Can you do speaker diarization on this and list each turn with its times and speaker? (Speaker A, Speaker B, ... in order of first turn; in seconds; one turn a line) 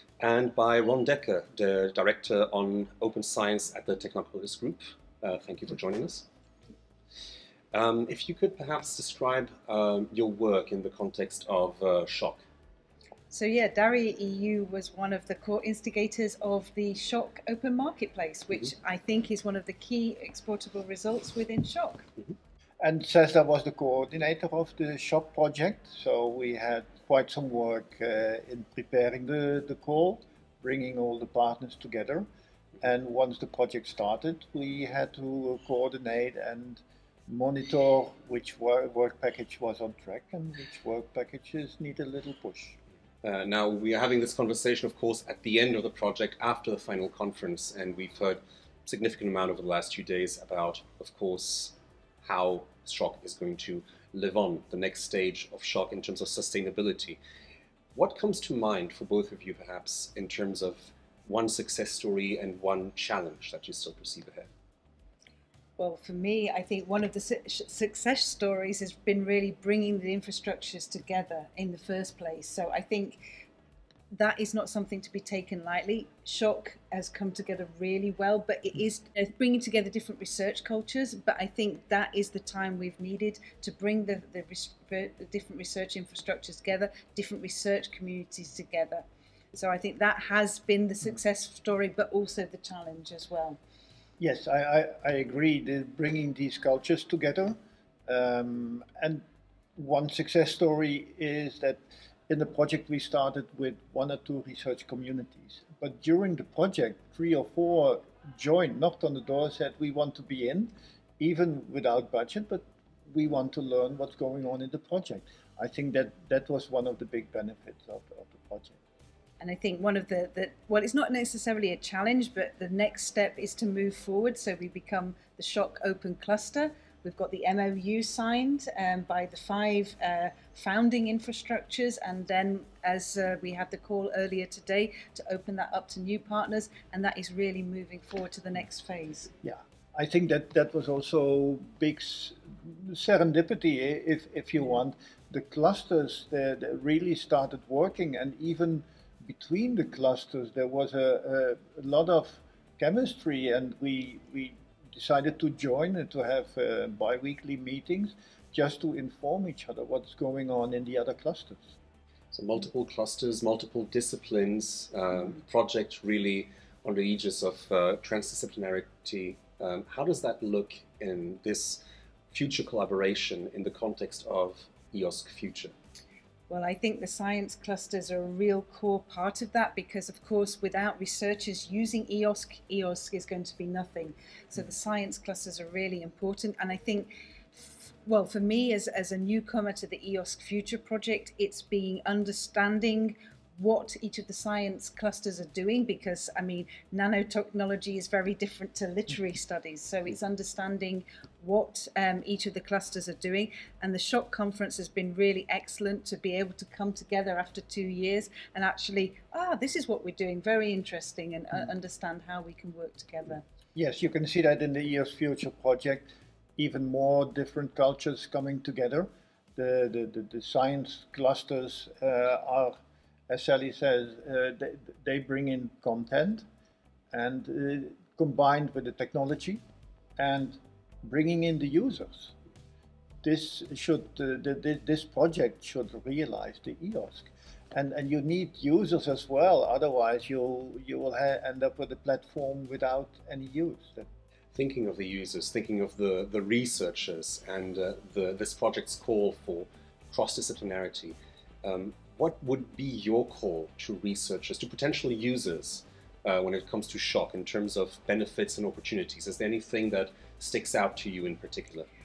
Speaker A: 0.2-6.2
Speaker A: 7.7-12.4
Speaker B: 13.3-22.1
Speaker C: 22.8-32.3
Speaker C: 32.8-42.8
Speaker A: 43.2-57.2
Speaker A: 57.9-64.5
Speaker B: 65.8-73.2
Speaker B: 74.1-93.6
Speaker C: 94.2-97.5
Speaker C: 98.1-99.2
Speaker C: 99.8-118.8
Speaker B: 119.4-139.3
Speaker C: 139.4-161.7
Speaker A: 162.3-175.7
Speaker B: 176.5-213.4
Speaker C: 213.7-222.8
Speaker C: 223.3-226.4
Speaker C: 227.1-229.6
Speaker C: 230.2-232.3
Speaker C: 233.2-244.1
Speaker A: 244.5-261.9